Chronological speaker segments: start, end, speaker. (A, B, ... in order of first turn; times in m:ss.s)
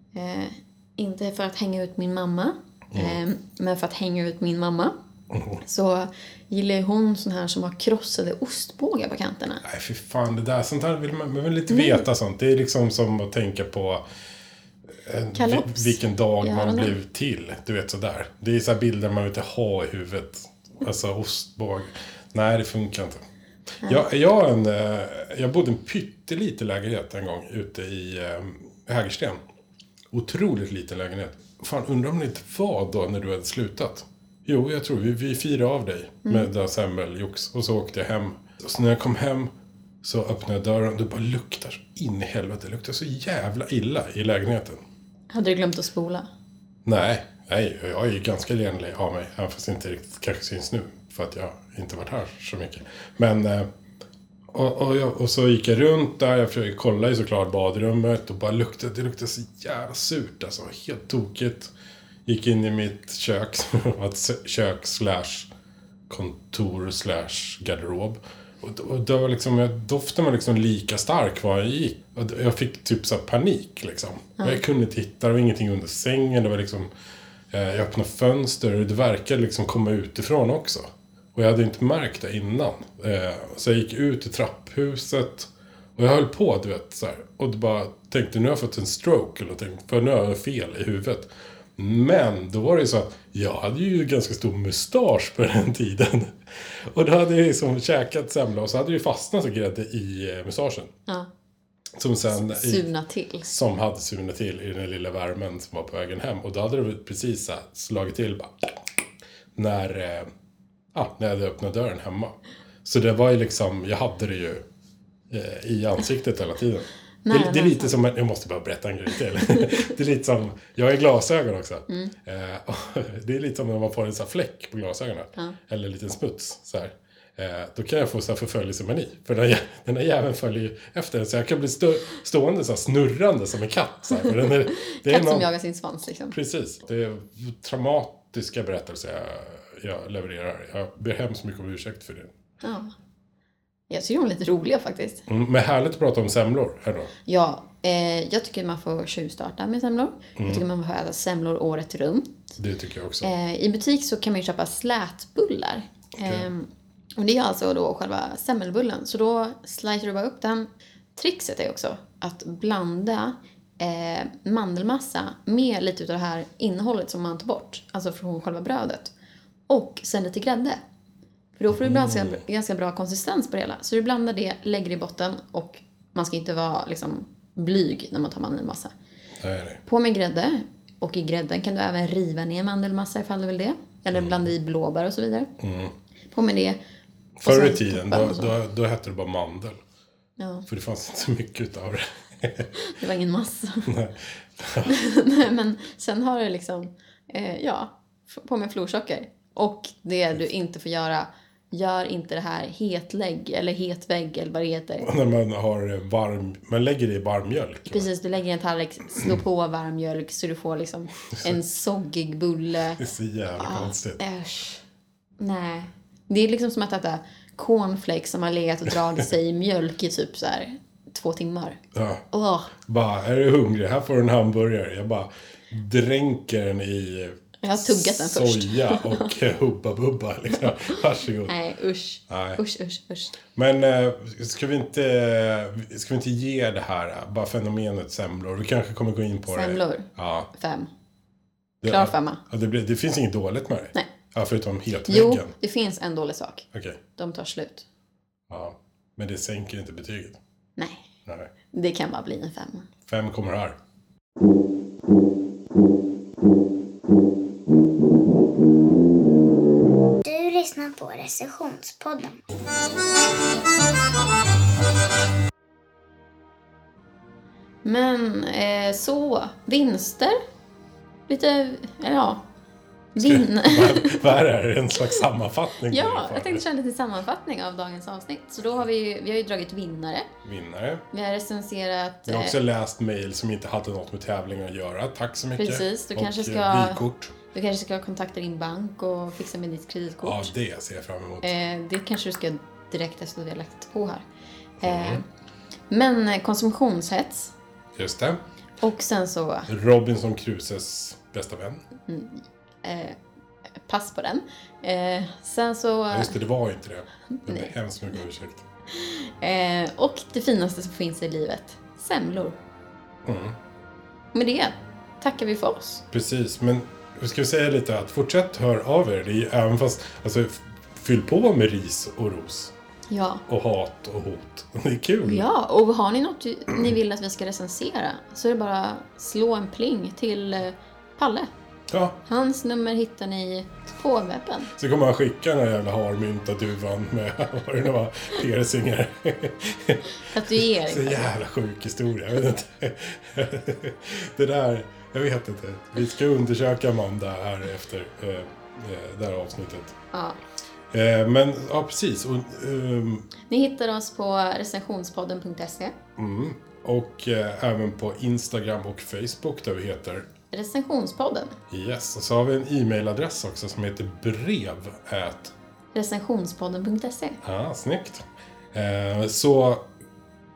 0:00.1-0:04.9 A
0:02.9-0:03.2 B
0:05.3-0:05.6 B
0:05.6-0:09.6 A
0:09.6-0:14.0 B
0:11.7-0:12.0 A
0:14.9-0:23.2 B
0:15.3-0:16.9 A
0:23.8-0:29.4 B
0:30.1-0:39.5 B
0:40.0-0:44.8 B
0:45.3-0:46.3 A
0:46.8-0:53.7 B
0:54.5-1:01.7 B
1:02.2-1:05.5 B
1:06.1-1:16.9 B
1:17.5-1:40.9 B
1:42.0-1:42.9 B
1:42.3-1:43.5 A
1:43.4-1:48.8 B
1:49.5-1:50.3 B
1:50.9-1:54.6 B
1:55.3-2:15.5 B
1:57.2-1:58.0 A
2:14.7-2:16.3 A
2:16.3-2:22.3 B
2:22.6-2:22.9 A
2:23.9-2:25.2 A
2:25.3-2:27.1 B
2:27.2-2:32.4 A
2:30.4-2:30.6 B
2:32.6-2:33.3 B
2:33.2-2:49.1 A
2:36.2-2:36.5 B
2:49.7-2:50.8 A
2:51.6-2:58.9 A
2:51.7-2:52.4 B
2:59.4-2:59.8 B
2:59.8-3:05.5 A
3:05.6-3:05.9 B
3:06.3-3:06.8 A
3:07.4-3:09.8 B
3:07.4-3:08.5 A
3:10.4-3:10.7 A
3:10.7-3:12.7 B
3:12.8-3:13.9 A
3:13.8-3:15.0 B
3:14.8-3:25.1 A
3:25.0-3:28.1 B
3:27.9-3:33.0 A
3:33.0-3:34.2 B
3:33.6-3:34.8 A
3:35.4-3:42.7 A
3:41.9-3:42.2 B
3:42.8-3:51.5 B
3:47.6-3:49.3 A
3:51.4-3:53.4 A
3:52.3-3:52.6 B
3:53.5-4:00.5 B
3:59.5-4:00.9 A
4:01.8-4:05.5 B
4:01.9-4:02.4 A
4:05.0-4:07.8 A
4:06.7-4:07.0 B
4:08.5-4:10.4 B
4:10.8-4:11.1 A
4:11.7-4:12.9 A
4:13.0-4:13.8 B
4:20.2-4:22.4 C
4:27.8-4:30.4 A
4:31.3-4:32.4 A
4:33.2-4:34.2 A
4:33.2-4:36.6 B
4:35.9-4:40.3 A
4:40.4-4:41.0 B
4:41.1-4:42.6 A
4:42.2-4:47.3 B
4:45.6-4:50.5 A
4:50.2-4:51.5 B
4:51.4-4:54.2 A
4:54.8-4:55.2 B
4:54.8-4:55.2 A
4:55.9-4:57.5 A
4:57.9-4:58.4 B
4:58.8-4:59.7 A
4:59.7-5:01.8 B
5:02.1-5:03.2 A
5:03.8-5:06.4 A
5:06.1-5:08.6 B
5:07.4-5:07.7 A
5:08.9-5:12.6 A
5:13.2-5:13.6 B
5:14.3-5:16.0 A
5:16.1-5:22.7 B
5:23.1-5:23.4 A
5:23.5-5:25.5 B
5:25.2-5:31.5 A
5:31.9-5:32.2 B
5:32.2-5:34.7 A
5:34.7-5:50.0 B
5:40.3-5:41.3 A
5:50.1-5:50.4 A
5:50.9-5:53.3 B
5:53.5-5:55.9 A
5:56.2-6:00.3 B
6:00.5-6:01.6 A
6:01.7-6:05.5 B
6:05.9-6:07.4 A
6:07.4-6:09.9 B